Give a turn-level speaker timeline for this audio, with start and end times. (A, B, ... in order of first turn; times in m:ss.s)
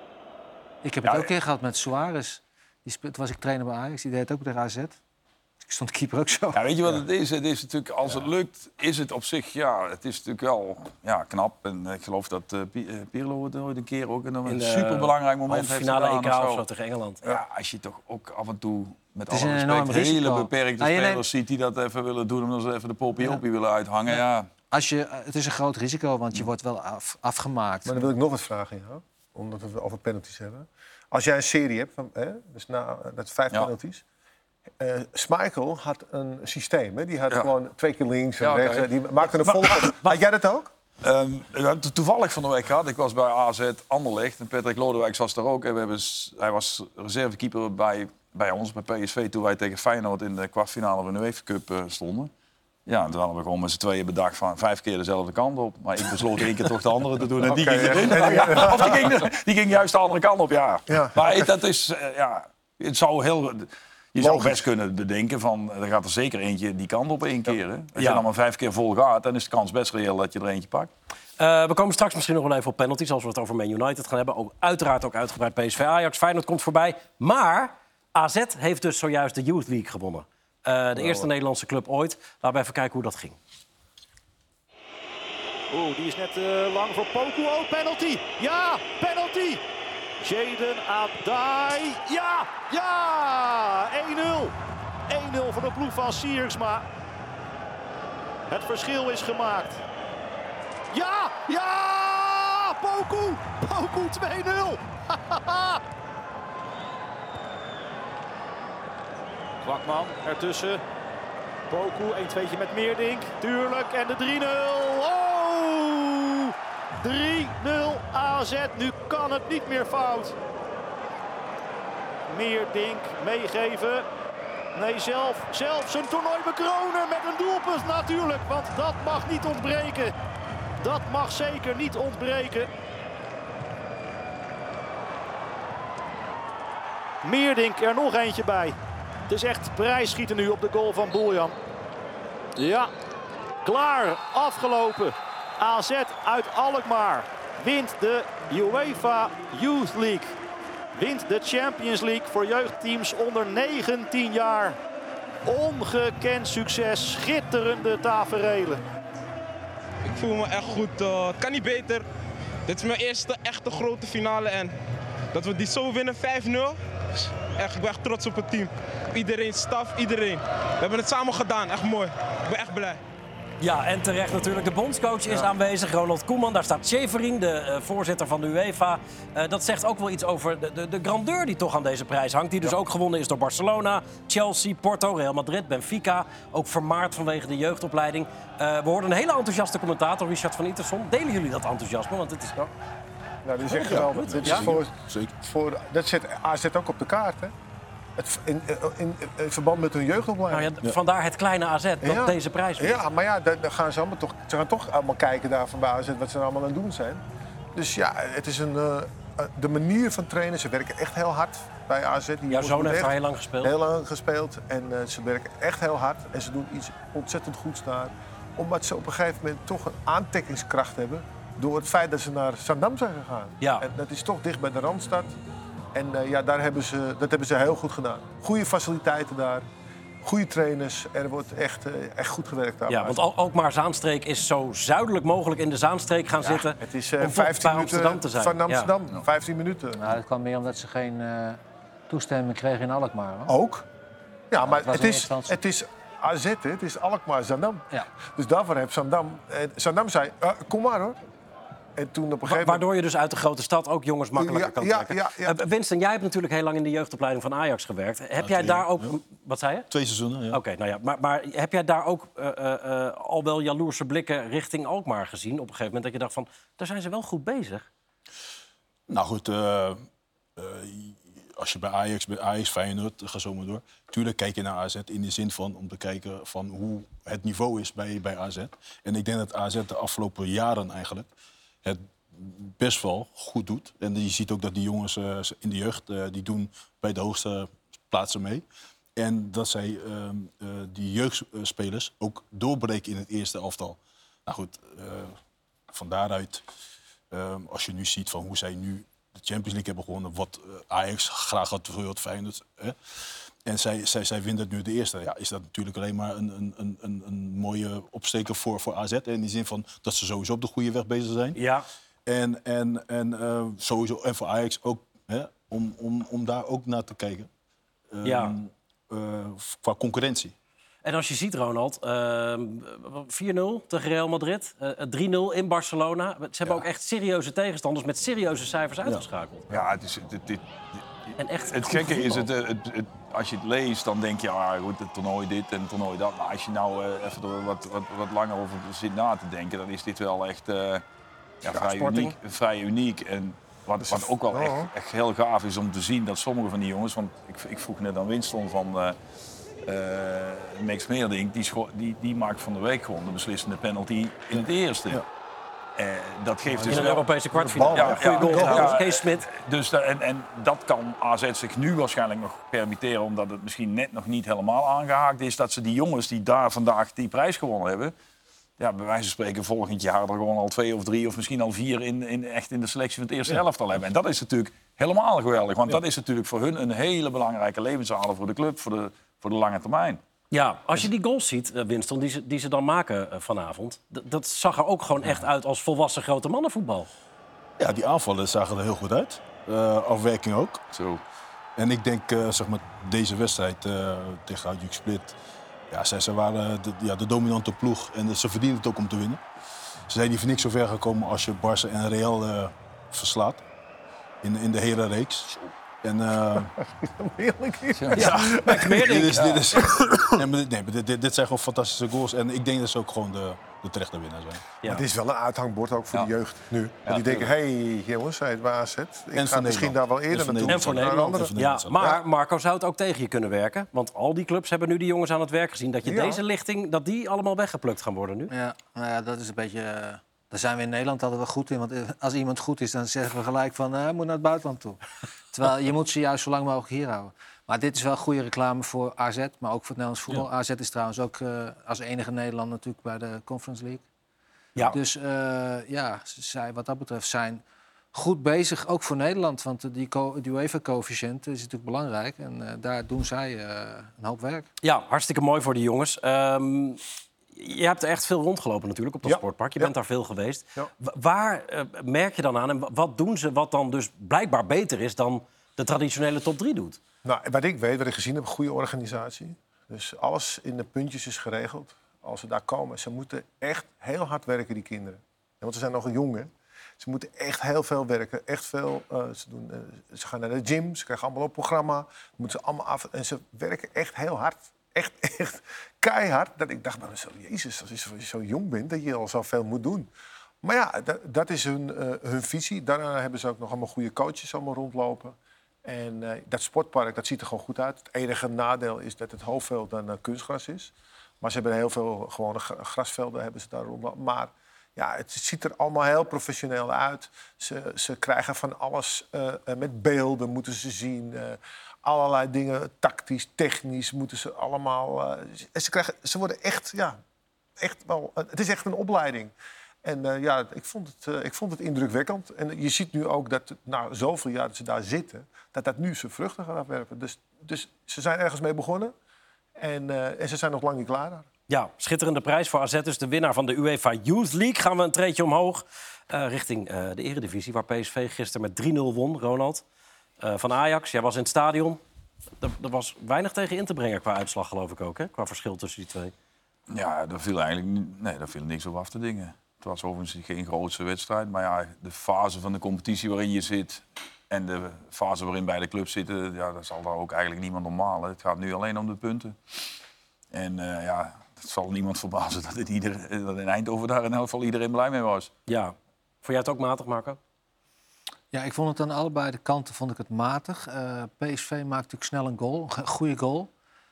0:00.8-0:05.0 A
0:01.0-0:01.3 B
0:05.7-0:06.6 A
0:06.6-0:16.6 B
0:14.5-0:17.2 C
0:17.2-0:24.5 B
0:19.3-0:21.2 A
0:24.7-0:28.0 A
0:27.8-0:34.0 D
0:34.8-0:40.7 D
0:38.4-0:40.2 B
0:41.0-0:52.3 B
0:52.9-1:10.9 B
0:57.4-0:59.0 D
1:00.9-1:01.5 D
1:04.2-1:04.6 D
1:08.0-1:08.2 C
1:11.4-1:23.4 C
1:25.7-1:29.6 E
1:30.2-1:34.5 E
1:35.1-1:36.9 E
1:38.5-1:39.8 E
1:40.9-1:45.8 E
1:49.6-1:50.8 E
1:51.7-2:00.4 E
2:02.3-2:04.1 E
2:04.7-2:10.1 E
2:10.8-2:12.7 E
2:17.2-2:18.8 E
2:19.3-2:21.6 E
2:22.6-2:22.9 E
2:23.6-2:30.4 E
2:31.0-2:34.8 E
2:35.4-2:38.8 E
2:40.0-2:42.0 F
2:42.7-2:44.8 F
2:45.3-2:46.8 F
2:47.6-2:53.0 F
2:53.6-3:12.6 C
3:13.4-3:17.5 D
3:13.7-3:14.8 C
3:13.7-3:15.3 G
3:18.2-3:20.7 D
3:20.5-3:23.0 C
3:22.0-3:27.2 D
3:27.8-3:45.3 D
3:32.5-3:33.7 C
3:45.9-3:49.7 D
3:50.2-3:53.2 D
3:52.9-3:58.9 C
3:56.4-4:00.2 D
4:00.0-4:01.6 A
4:02.1-4:03.5 A
4:03.5-4:03.9 D
4:04.5-4:11.2 D
4:04.6-4:05.6 A
4:12.0-4:12.9 D
4:12.5-4:19.9 C
4:14.4-4:15.6 D
4:18.4-4:19.1 G
4:19.9-4:20.6 G
4:20.5-4:27.9 C
4:29.1-4:30.0 G
4:30.6-4:41.3 G
4:41.8-4:48.6 G
4:49.2-4:55.4 G
4:55.9-4:56.6 G
4:57.3-5:11.6 G
5:11.6-5:11.9 C
5:12.3-5:17.5 G
5:18.1-5:20.6 G
5:18.2-5:18.6 C
5:21.0-5:29.6 C
5:29.7-5:30.6 B
5:31.4-5:32.4 C
5:31.6-5:41.0 B
5:41.6-5:49.2 B
5:41.7-5:42.4 D
5:44.0-5:44.9 D
5:49.8-5:55.2 B
5:56.0-6:08.1 B
5:56.8-5:59.0 D
5:56.9-5:59.5 C
6:08.8-6:20.2 B
6:20.5-6:27.1 C
6:27.8-6:30.8 G
6:30.9-6:31.2 B
6:31.8-6:35.4 G
6:35.9-6:39.4 G
6:40.1-6:43.6 G
6:44.4-6:45.5 G
6:46.0-6:46.7 G
6:46.6-6:49.1 D
6:48.2-6:49.4 C
6:48.2-6:54.7 G
6:49.3-6:49.7 B
6:50.0-6:50.2 D
6:54.8-7:02.2 D
6:57.0-6:57.5 B
6:59.3-7:02.2 G
7:00.7-7:08.5 C
7:06.0-7:06.4 D
7:08.5-7:15.0 A
7:15.5-7:24.0 A
7:24.8-7:27.6 A
7:28.1-7:34.7 A
7:34.8-7:37.0 C
7:37.6-7:47.0 C
7:39.2-7:39.9 D
7:47.2-7:56.5 D
7:57.0-8:10.1 D
8:10.6-8:37.2 D
8:37.8-8:39.5 D
8:40.0-8:49.1 D
8:49.8-8:51.5 D
8:51.7-8:59.8 C
9:00.4-9:02.0 C
9:02.6-9:06.3 C
9:06.9-9:19.6 B
9:20.5-9:25.5 B
9:25.7-9:27.4 C
9:28.5-9:33.7 A